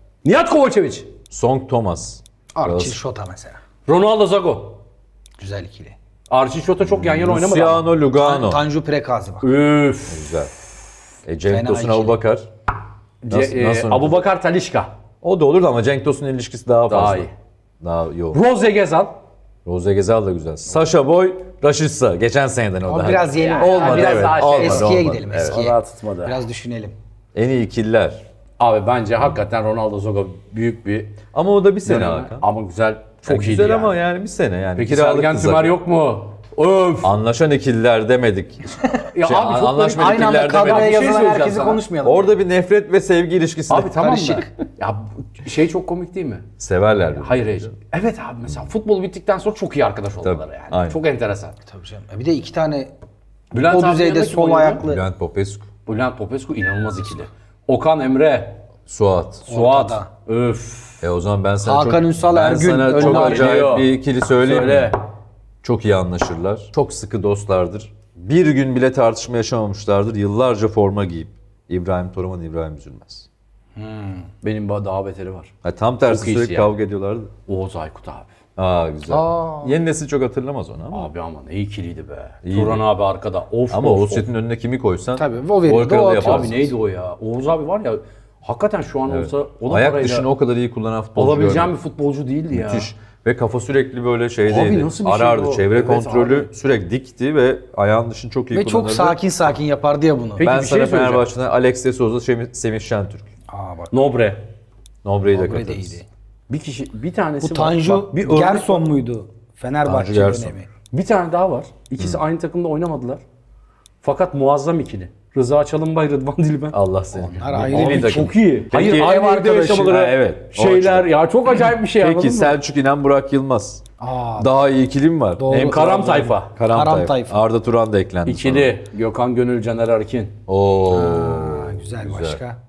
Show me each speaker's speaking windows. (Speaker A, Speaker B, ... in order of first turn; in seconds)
Speaker A: 0.2-1.1, 3.9-4.8, 6.3-7.9, 9.4-10.4, 13.2-14.9, 16.9-17.3, 18.3-19.1, 23.3-26.4, 28.6-31.2, 31.9-34.0, 34.8-37.1, 39.1-41.8, 43.7-46.5, 47.2-51.6, 53.5-54.8, 55.9-58.6, 59.5-61.0, 62.9-65.0, 74.4-75.5, 76.1-76.7, 77.5-78.3, 80.9-84.3, 86.2-90.3, 91.2-92.9, 94.5-96.5, 100.4-101.3, 103.9-104.5, 106.5-108.9, 110.9-113.2, 114.0-116.8, 117.7-122.6, 125.5-126.5, 128.3-130.4
Speaker B: 1.3-3.0, 6.8-8.6, 10.1-10.5, 11.3-12.5, 13.3-14.2, 15.2-17.3, 17.8-18.4, 19.6-25.6, 27.4-28.2, 31.3-32.5, 33.3-35.8, 37.0-41.2, 42.0-44.0, 46.6-47.8, 50.2-51.0, 54.8-55.7, 58.9-59.5, 61.0-65.0, 65.6-73.3, 75.6-77.3, 78.6-81.1, 82.5-82.8, 83.7-86.7, 89.1-91.7, 92.5-99.2, 100.4-103.3, 105.0-106.0, 109.8-110.5, 116.7-121.1, 121.7-123.8, 124.4-128.8, 130.5-132.4
Speaker C: 2.5-3.6, 5.4-6.0, 8.1-9.5, 11.5-12.2, 22.9-27.0, 40.0-42.4, 43.9-44.5, 51.7-52.9, 53.5-55.0, 59.5-60.1, 61.6-63.6, 73.8-74.3, 79.1-79.8, 85.2-86.5, 98.5-100.5, 103.5-104.0, 105.3-106.1, 107.4-110.7, 117.2-119.9, 124.0-124.6, 125.4-127.4, 130.9-132.6